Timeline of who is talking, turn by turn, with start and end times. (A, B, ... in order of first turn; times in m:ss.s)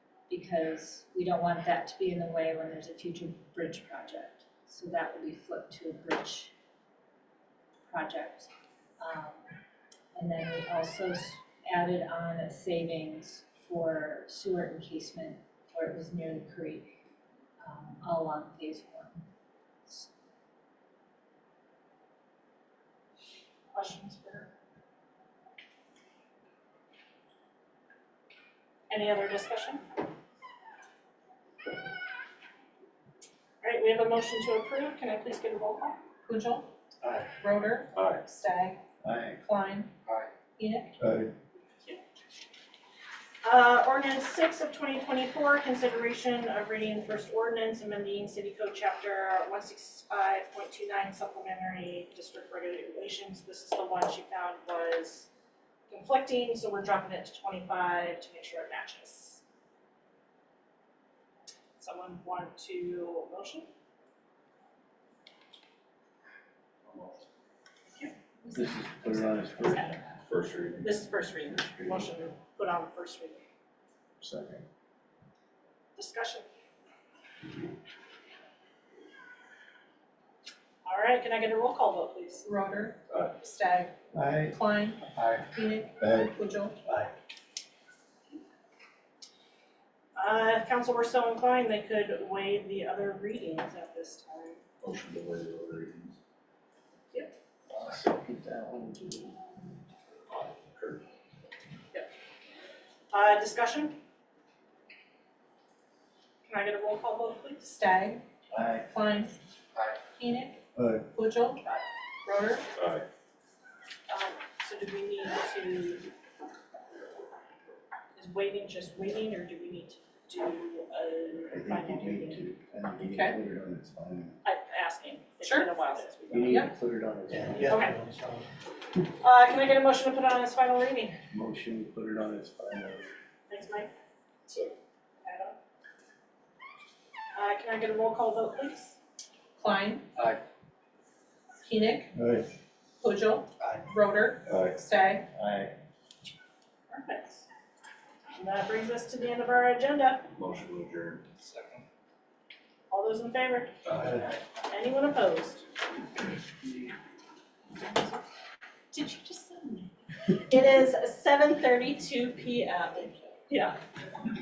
0:00.3-0:06.5 A
0:07.9-0:09.5 A
0:10.1-0:17.0 A
0:17.6-0:19.2 A
0:19.8-0:20.1 A
0:23.7-0:24.5 B
0:28.9-0:29.8 B
0:33.6-0:36.0 B
0:36.2-0:36.7 C
0:37.0-0:37.3 D
0:37.4-0:38.8 C
0:37.9-0:38.2 E
0:39.0-0:39.4 D
0:39.4-0:39.9 C
0:40.6-0:40.9 C
0:43.4-0:55.3 B
0:55.9-0:59.4 B
1:01.8-1:03.7 B
1:06.8-1:07.2 E
1:07.9-1:08.1 B
1:08.5-1:09.9 D
1:09.4-1:10.1 B
1:10.2-1:12.0 E
1:10.8-1:13.4 B
1:14.2-1:14.6 D
1:16.0-1:16.4 B
1:20.8-1:22.4 B
1:22.4-1:23.9 C
1:24.1-1:24.5 D
1:24.4-1:26.8 C
1:25.1-1:25.4 D
1:26.8-1:27.1 D
1:30.2-1:34.6 B
1:34.8-1:36.2 E
1:37.7-1:39.4 D
1:40.3-1:41.0 E
1:43.1-1:44.0 B
1:46.4-1:47.7 B
1:47.6-1:48.2 C
1:48.5-1:48.9 D
1:48.8-1:49.4 C
1:50.1-1:51.6 C
1:52.2-1:52.6 C
1:52.8-1:53.0 E
1:54.1-1:56.1 B
1:58.1-2:02.4 B
2:01.5-2:04.4 D
2:03.0-2:03.4 C
2:04.4-2:06.5 B
2:05.4-2:05.8 C
2:06.3-2:07.8 D
2:07.6-2:08.0 B
2:09.2-2:11.2 B
2:11.3-2:13.1 D
2:13.5-2:13.9 B
2:14.5-2:15.6 B
2:17.3-2:19.0 B
2:19.6-2:20.1 C
2:21.6-2:22.1 C
2:23.0-2:25.2 C
2:25.3-2:25.7 D
2:26.9-2:27.4 B
2:28.3-2:30.3 B
2:30.3-2:31.2 E
2:32.9-2:33.7 B
2:34.6-2:35.7 B
2:37.8-2:38.2 B
2:38.9-2:43.8 B